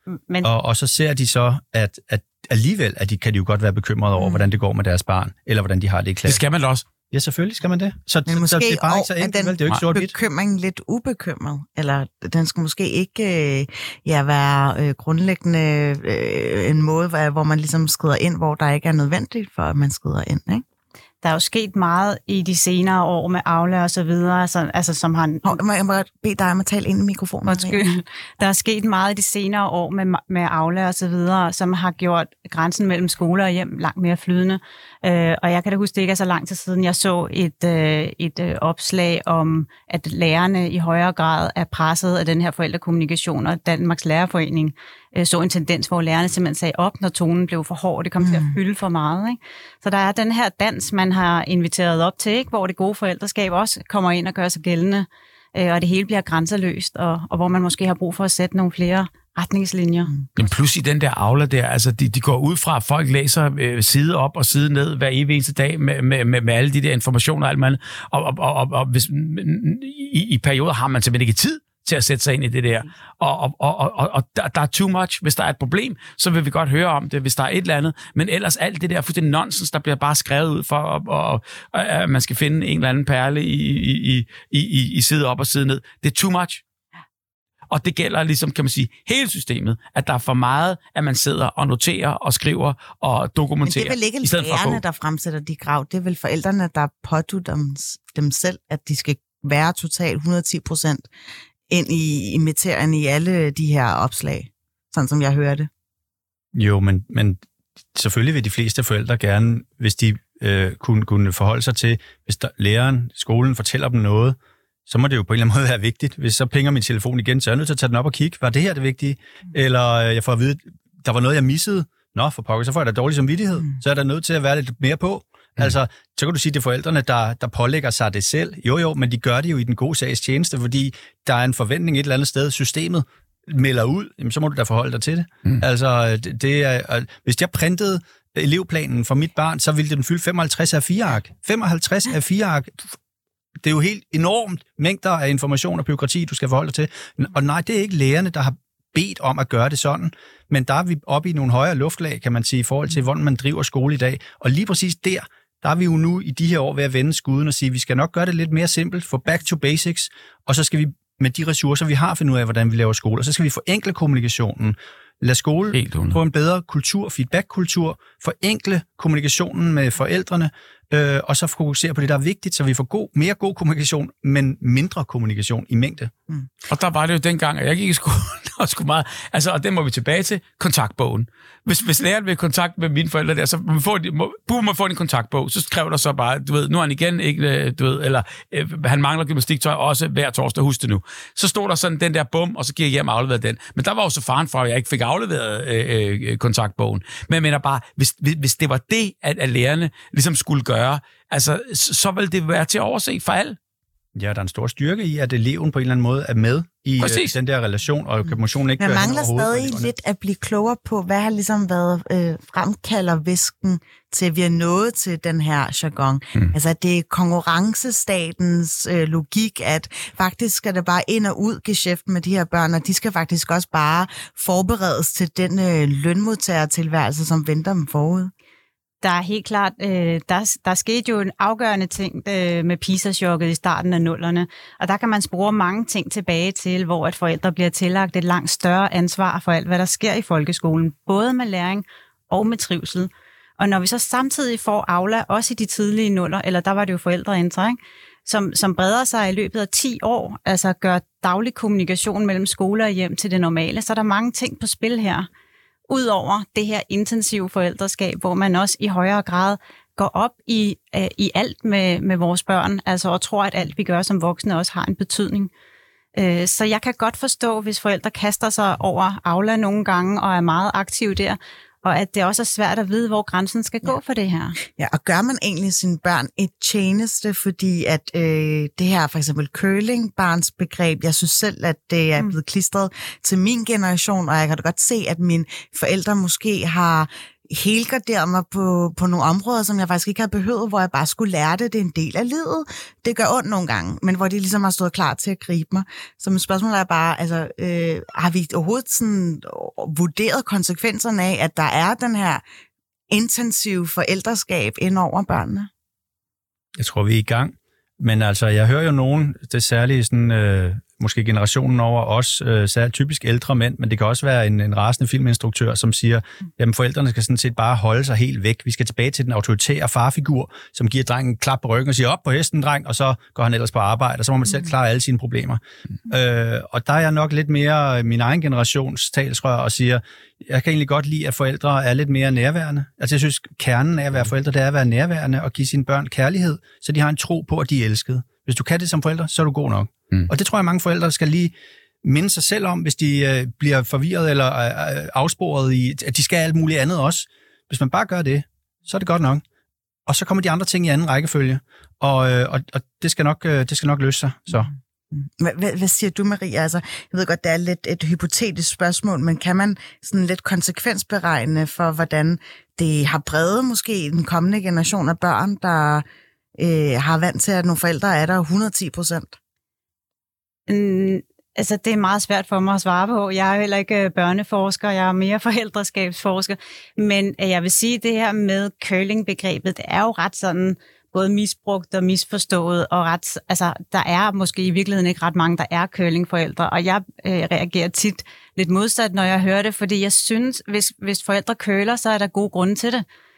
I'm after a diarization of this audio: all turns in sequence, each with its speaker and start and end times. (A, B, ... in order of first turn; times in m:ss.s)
0:00.4-0:06.4 A
0:04.2-0:04.5 B
0:06.3-0:06.9 C
0:07.0-0:10.1 A
0:08.3-0:20.6 B
0:21.2-0:25.6 D
0:25.4-0:27.8 B
0:27.5-1:00.1 D
0:48.2-0:48.6 B
1:00.4-1:26.6 C
1:27.7-1:34.8 C
1:33.6-1:41.1 B
1:41.7-1:45.7 B
1:46.6-1:47.4 A
1:47.9-2:22.9 A
2:23.6-2:56.1 A
2:45.7-2:46.2 C
2:56.7-3:23.6 C
3:24.2-3:29.9 A
3:27.0-3:27.4 C
3:28.2-3:48.3 B
3:49.0-4:15.3 D
4:15.9-4:25.5 D
4:26.2-4:34.6 D
4:34.6-5:02.4 B
5:03.1-5:05.7 B
5:06.8-5:49.4 A
5:50.1-5:54.7 A
5:55.1-6:06.1 B
6:06.6-6:09.4 B
6:10.7-6:33.0 D